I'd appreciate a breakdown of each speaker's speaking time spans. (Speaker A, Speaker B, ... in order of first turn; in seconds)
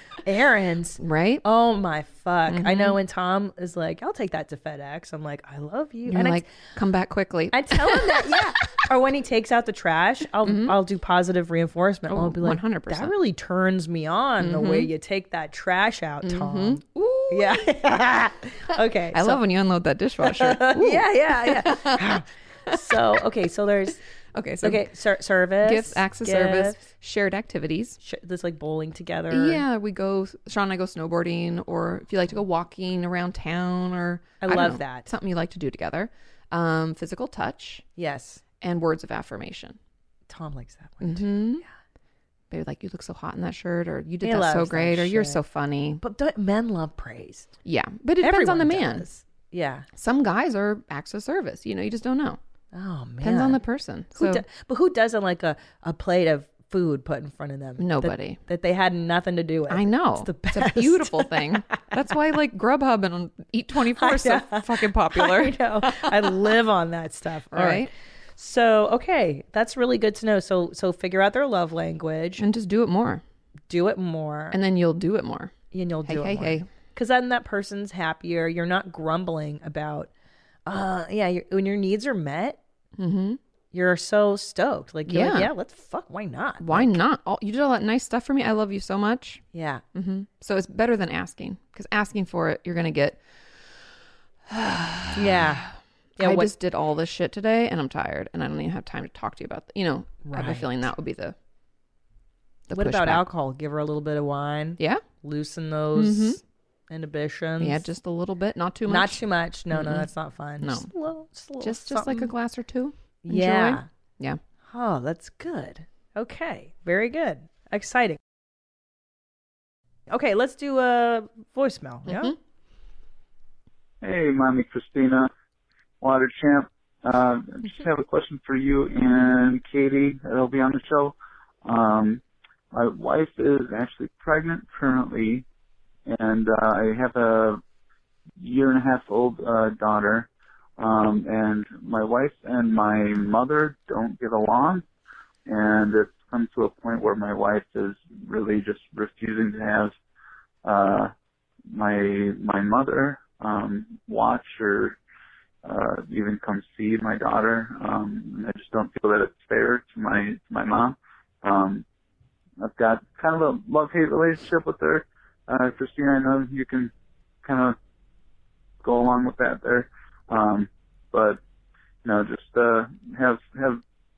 Speaker A: 0.2-6.5, 7.5-19.4, 20.2-24.0, 24.6-26.8, 28.0-29.6, 34.4-35.1, 38.0-38.4, 40.3-41.7, 44.2-45.4, 46.0-47.5, 48.2-49.9, 52.7-53.6, 54.1-61.6, 64.0-72.4, 73.7-74.6, 75.7-80.1, 80.7-82.6, 83.7-87.0, 89.5-89.8, 95.1-95.7, 96.2-96.5, 100.2-100.7, 102.7-107.8, 108.9-112.3, 113.2-113.8, 114.6-118.2, 120.1-122.3
Speaker B: 1.0-1.4, 2.5-3.0, 6.1-8.8, 10.4-10.8, 12.1-13.1, 14.4-14.9, 16.2-17.7, 19.1-22.1, 22.7-22.9, 24.4-24.9, 25.6-28.0, 29.3-37.8, 38.6-39.8, 41.0-41.6, 42.5-46.0, 47.6-49.0, 50.0-52.4, 53.2-54.5, 57.8-58.4, 59.7-66.4, 67.5-67.9, 72.4-73.2, 74.5-75.5, 76.1-76.7, 83.0-83.4, 85.1-85.5, 86.6-89.4, 89.9-93.7, 94.5-101.3, 102.7-103.2, 106.0-106.4, 107.6-110.1, 110.6-110.9, 111.6-114.4, 122.1-122.4
Speaker C: 124.0-125.3, 126.0-135.4, 136.1-137.6, 138.4-144.8, 145.5-149.9, 150.6-151.1, 151.7-155.0, 155.6-161.8, 162.6-166.9, 167.4-167.8, 168.8-171.4, 172.0-173.8